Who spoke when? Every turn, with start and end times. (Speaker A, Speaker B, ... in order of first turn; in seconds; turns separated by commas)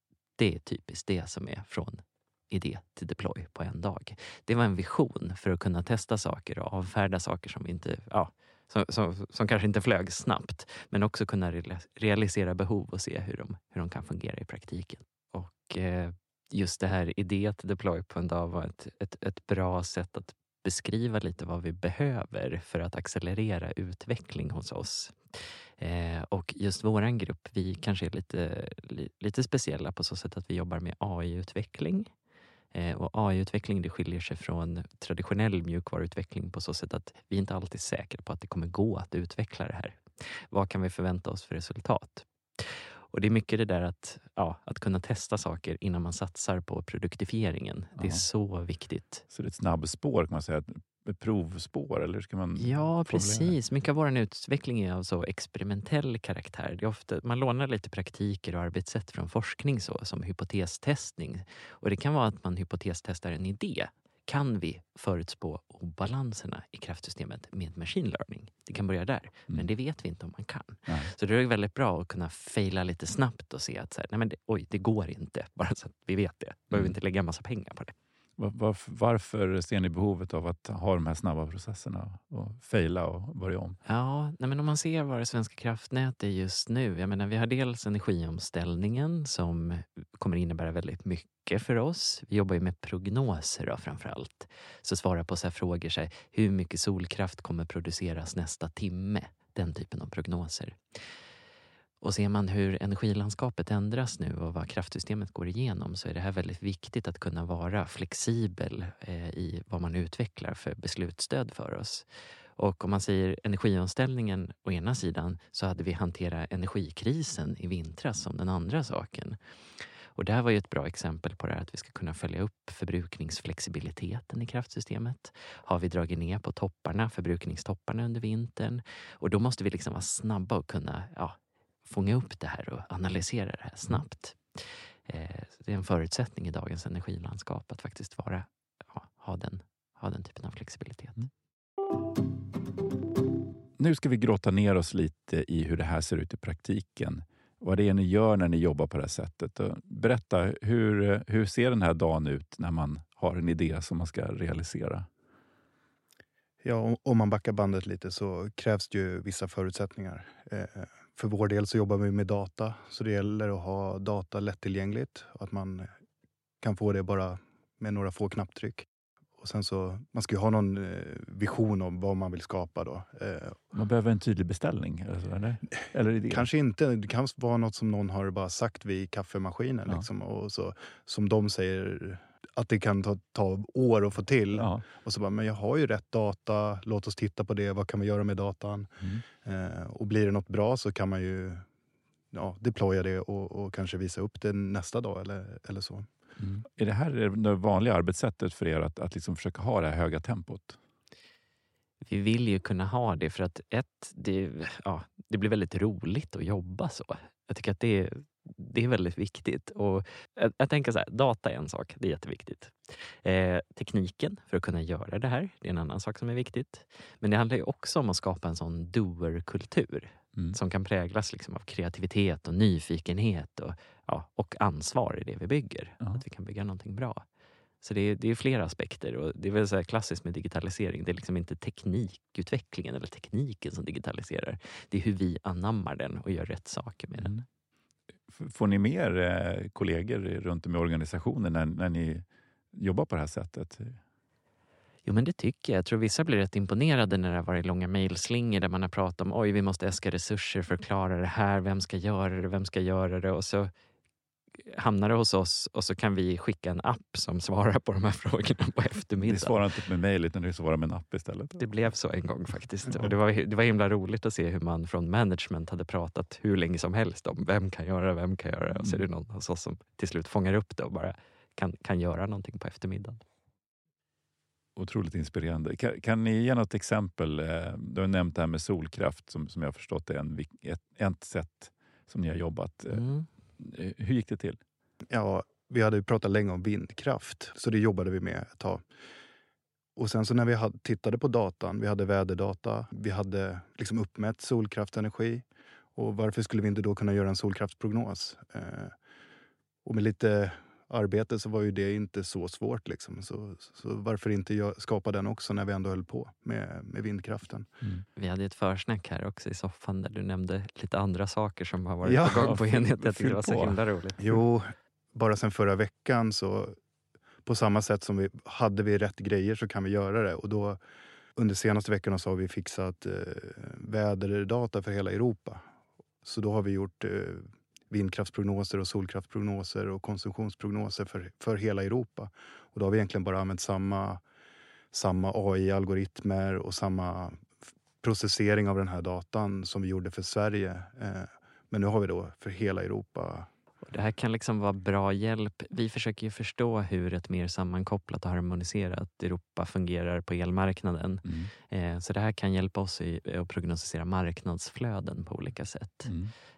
Speaker A: 0.4-32.1, Speaker A: 32.7-49.2, Speaker B: 48.0-48.2, Speaker B: 49.3-53.6, Speaker A: 52.6-77.9, Speaker B: 70.9-71.1, Speaker B: 78.4-83.8, Speaker A: 83.9-100.8, Speaker A: 102.0-112.1, Speaker A: 112.6-119.4, Speaker A: 120.2-141.3, Speaker B: 143.8-155.1, Speaker C: 156.6-165.9, Speaker C: 166.6-168.9, Speaker C: 169.4-173.6, Speaker B: 173.7-176.5, Speaker C: 176.3-191.7, Speaker B: 184.6-184.8, Speaker C: 192.3-196.1, Speaker B: 196.4-200.8, Speaker A: 202.1-227.2, Speaker A: 227.8-237.4, Speaker B: 237.2-237.4, Speaker B: 238.3-244.0, Speaker A: 245.1-253.7, Speaker A: 254.6-259.6, Speaker B: 259.2-261.6, Speaker A: 261.6-273.2, Speaker B: 268.8-269.0, Speaker B: 274.8-283.1, Speaker A: 282.9-283.3, Speaker B: 283.6-284.6, Speaker C: 285.1-288.8, Speaker C: 290.0-298.9, Speaker C: 299.9-307.7, Speaker A: 308.2-314.2, Speaker C: 312.0-312.4, Speaker B: 312.3-313.8, Speaker C: 314.2-316.8, Speaker C: 317.4-320.8, Speaker C: 321.4-325.6, Speaker C: 326.2-334.2, Speaker C: 334.9-337.5, Speaker C: 338.0-343.5, Speaker A: 343.8-356.1, Speaker B: 351.2-351.5, Speaker B: 356.1-356.3